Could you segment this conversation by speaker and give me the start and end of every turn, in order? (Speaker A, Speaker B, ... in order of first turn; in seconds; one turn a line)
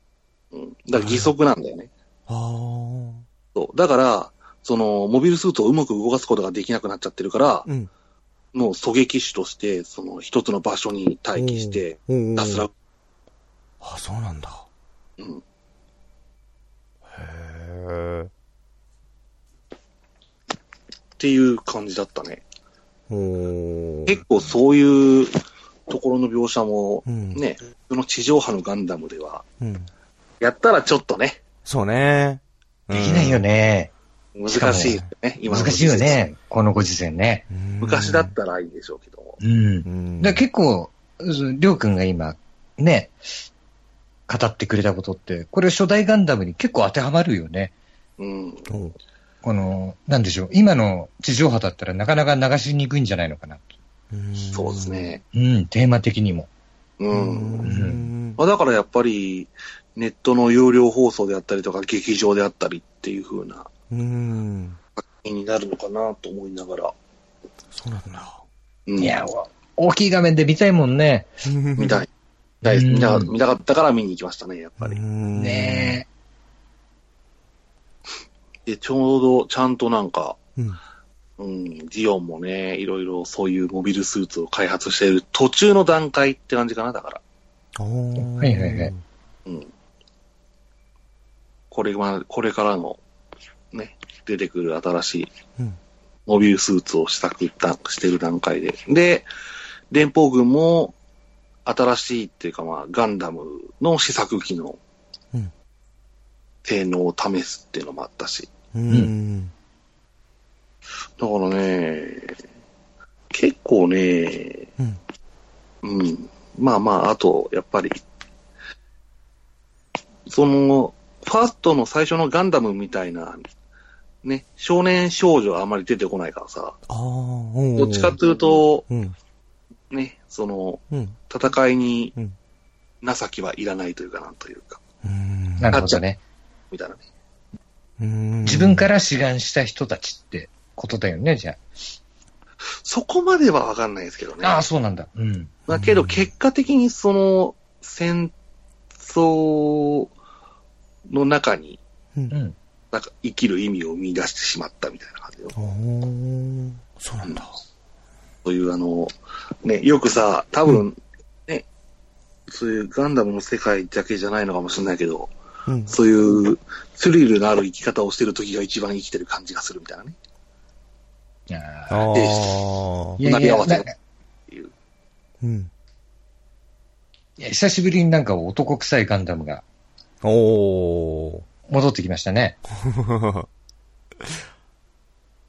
Speaker A: 0.5-1.9
Speaker B: 0.9-1.3
Speaker B: 2.3-3.3
Speaker A: 3.5-7.7
Speaker A: 8.5-12.7
Speaker B: 11.4-12.7
Speaker B: 13.8-14.7
Speaker B: 17.1-18.3
Speaker A: 21.2-22.4
Speaker B: 23.1-24.2
Speaker A: 24.1-29.4
Speaker B: 27.1-27.4
Speaker B: 29.6-29.9
Speaker A: 30.4-31.4
Speaker B: 31.7-33.4
Speaker C: 32.9-33.9
Speaker A: 34.4-36.2
Speaker C: 34.5-37.5
Speaker B: 34.8-35.1
Speaker B: 37.5-38.3
Speaker A: 37.8-39.4
Speaker C: 39.4-43.2
Speaker B: 39.9-40.5
Speaker C: 44.3-47.7
Speaker A: 48.2-48.7
Speaker B: 48.7-49.0
Speaker C: 49.4-53.7
Speaker B: 54.1-55.2
Speaker A: 54.5-55.2
Speaker C: 55.3-56.5
Speaker A: 57.0-57.8
Speaker B: 57.1-58.4
Speaker C: 57.7-58.1
Speaker A: 58.4-63.7
Speaker B: 63.9-64.8
Speaker A: 65.2-67.0
Speaker B: 67.7-68.4
Speaker A: 68.9-69.2
Speaker C: 69.0-71.3
Speaker B: 71.5-72.0
Speaker A: 71.8-72.1
Speaker A: 72.6-75.0
Speaker C: 72.7-73.3
Speaker B: 74.8-76.0
Speaker C: 75.3-76.1
Speaker A: 78.7-80.4
Speaker A: 81.4-87.2
Speaker B: 87.8-89.0
Speaker C: 88.2-88.9
Speaker A: 89.5-89.7
Speaker A: 91.7-93.0
Speaker A: 93.7-95.3
Speaker A: 96.3-99.3
Speaker A: 99.9-101.0
Speaker A: 101.7-104.8
Speaker A: 106.7-108.5
Speaker B: 108.7-109.5
Speaker A: 111.2-112.4
Speaker A: 113.3-114.7
Speaker A: 115.8-118.0
Speaker A: 120.3-123.5
Speaker A: 124.2-126.8
Speaker B: 126.9-128.2
Speaker A: 127.8-128.9
Speaker B: 128.9-129.2
Speaker A: 129.9-132.2
Speaker B: 130.9-131.2
Speaker A: 133.0-134.8
Speaker B: 135.0-135.8
Speaker C: 135.6-136.2
Speaker A: 135.7-136.0
Speaker A: 136.7-137.0
Speaker B: 138.0-138.9
Speaker C: 138.4-141.6
Speaker A: 142.8-144.6
Speaker C: 144.4-145.6
Speaker A: 145.7-148.3
Speaker B: 145.7-146.3
Speaker A: 149.0-150.1
Speaker A: 151.1-151.8
Speaker C: 152.3-152.6
Speaker A: 152.9-155.6
Speaker B: 155.6-157.5
Speaker A: 158.4-159.1
Speaker A: 159.6-161.7
Speaker A: 162.5-165.3
Speaker B: 165.7-165.9
Speaker A: 165.9-170.2
Speaker C: 171.5-172.2
Speaker B: 171.9-173.2
Speaker A: 172.1-172.5
Speaker C: 173.2-173.9
Speaker A: 173.2-173.9
Speaker B: 175.4-175.7
Speaker C: 177.4-179.6
Speaker B: 180.2-181.4
Speaker C: 181.7-182.6
Speaker B: 182.8-183.5